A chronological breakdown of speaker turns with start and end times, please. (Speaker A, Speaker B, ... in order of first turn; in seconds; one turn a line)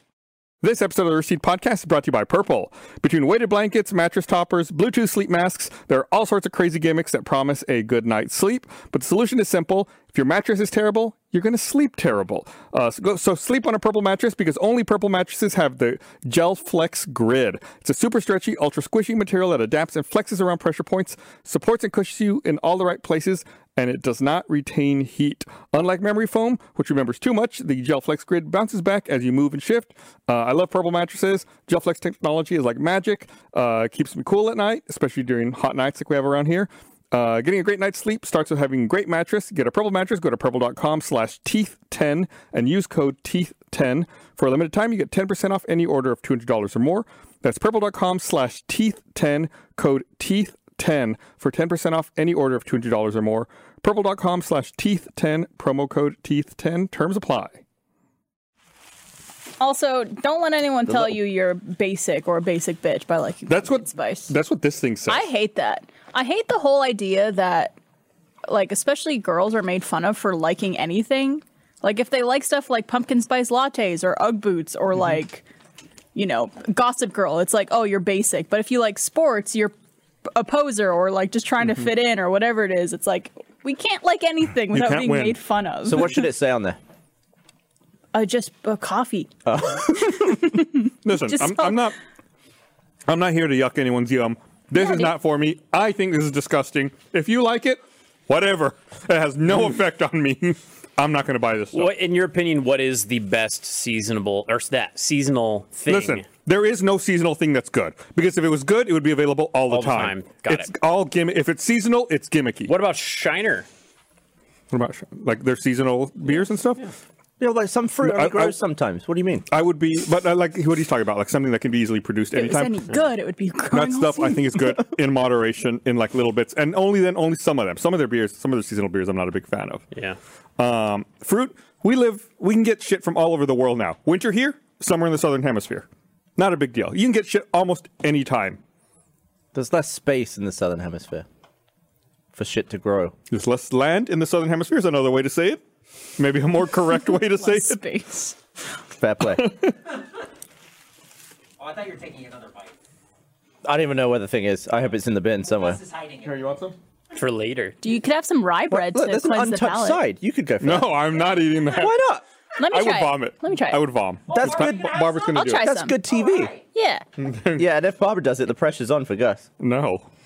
Speaker A: 0.6-57.6
Speaker B: 59.6-64.3
Speaker A: 60.9-61.1
Speaker A: 63.5-65.3
Speaker B: 65.0-67.8
Speaker B: 68.5-75.4
Speaker B: 76.1-79.7
Speaker B: 80.3-86.2
Speaker A: 84.7-85.4
Speaker C: 85.8-86.8
Speaker B: 88.1-91.9
Speaker C: 89.5-90.4
Speaker A: 91.0-92.0
Speaker A: 93.1-101.9
Speaker B: 94.7-95.1
Speaker D: 101.7-106.2
Speaker A: 105.9-112.7
Speaker D: 109.7-110.7
Speaker D: 112.7-113.7
Speaker A: 114.7-116.9
Speaker C: 117.4-119.5
Speaker A: 118.0-118.5
Speaker A: 119.5-123.0
Speaker B: 122.3-124.7
Speaker A: 123.7-129.8
Speaker D: 129.9-130.2
Speaker A: 130.6-135.8
Speaker A: 136.4-138.6
Speaker C: 139.5-141.2
Speaker C: 142.3-143.1
Speaker A: 143.3-145.6
Speaker A: 146.2-147.8
Speaker B: 146.9-148.4
Speaker C: 149.0-149.4
Speaker A: 149.3-149.7
Speaker E: 151.6-152.7
Speaker C: 153.6-155.8
Speaker E: 155.4-156.5
Speaker A: 156.2-156.7
Speaker D: 157.1-157.8
Speaker B: 157.8-160.0
Speaker C: 158.7-162.2
Speaker A: 160.6-162.0
Speaker B: 162.6-163.8
Speaker A: 162.7-165.7
Speaker E: 164.3-165.5
Speaker C: 164.3-164.8
Speaker B: 165.3-165.9
Speaker C: 165.6-166.5
Speaker E: 166.1-166.6
Speaker B: 166.7-167.0
Speaker A: 167.2-167.7
Speaker C: 167.6-169.5
Speaker A: 169.6-170.1